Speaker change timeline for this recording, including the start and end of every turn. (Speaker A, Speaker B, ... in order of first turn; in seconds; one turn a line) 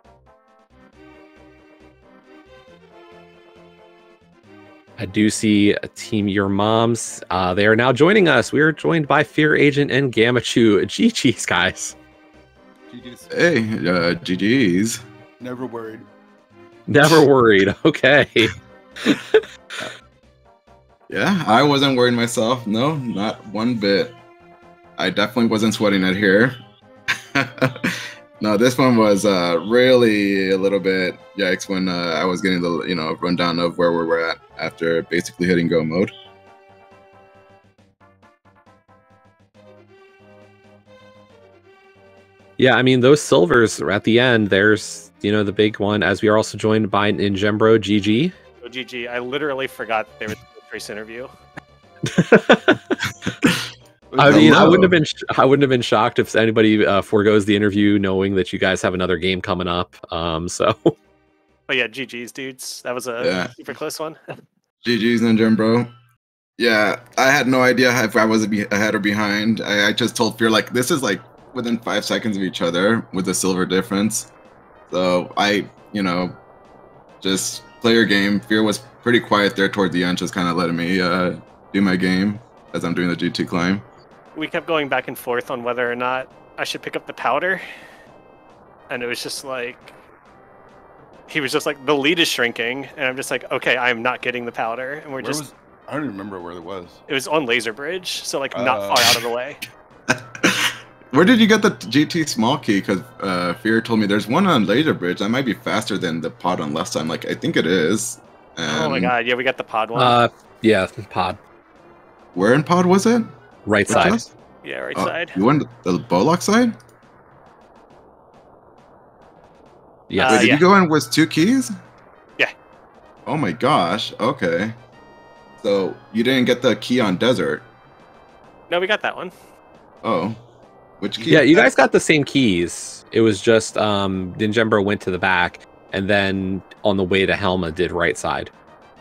Speaker A: 5.0-12.0
Speaker B: 12.9-13.3
Speaker C: 13.3-15.0
Speaker B: 15.4-16.1
Speaker A: 16.9-18.5
Speaker A: 19.0-19.4
Speaker C: 21.1-24.2
Speaker C: 25.0-26.6
Speaker C: 27.4-36.1
Speaker A: 42.6-48.4
Speaker D: 48.6-51.3
Speaker A: 52.1-52.8
Speaker B: 54.1-54.9
Speaker A: 54.2-61.0
Speaker C: 54.2-54.9
Speaker D: 61.7-64.2
Speaker C: 63.2-63.6
Speaker C: 64.8-65.9
Speaker C: 66.6-74.3
Speaker C: 74.9-76.4
Speaker C: 77.2-83.8
Speaker D: 84.3-87.6
Speaker D: 88.9-90.0
Speaker D: 91.3-95.4
Speaker B: 95.2-97.0
Speaker D: 97.1-99.6
Speaker B: 98.5-99.1
Speaker C: 100.1-109.2
Speaker D: 108.7-110.2
Speaker A: 110.0-111.4
Speaker C: 112.3-113.3
Speaker A: 113.7-114.2
Speaker C: 113.9-114.3
Speaker D: 113.9-115.4
Speaker C: 115.0-116.8
Speaker A: 120.1-120.5
Speaker D: 120.2-120.7
Speaker C: 120.2-121.7
Speaker C: 123.3-124.8
Speaker C: 125.6-127.7
Speaker D: 128.7-129.3
Speaker C: 130.0-130.4
Speaker C: 131.0-131.7
Speaker B: 131.2-131.7
Speaker A: 131.3-138.5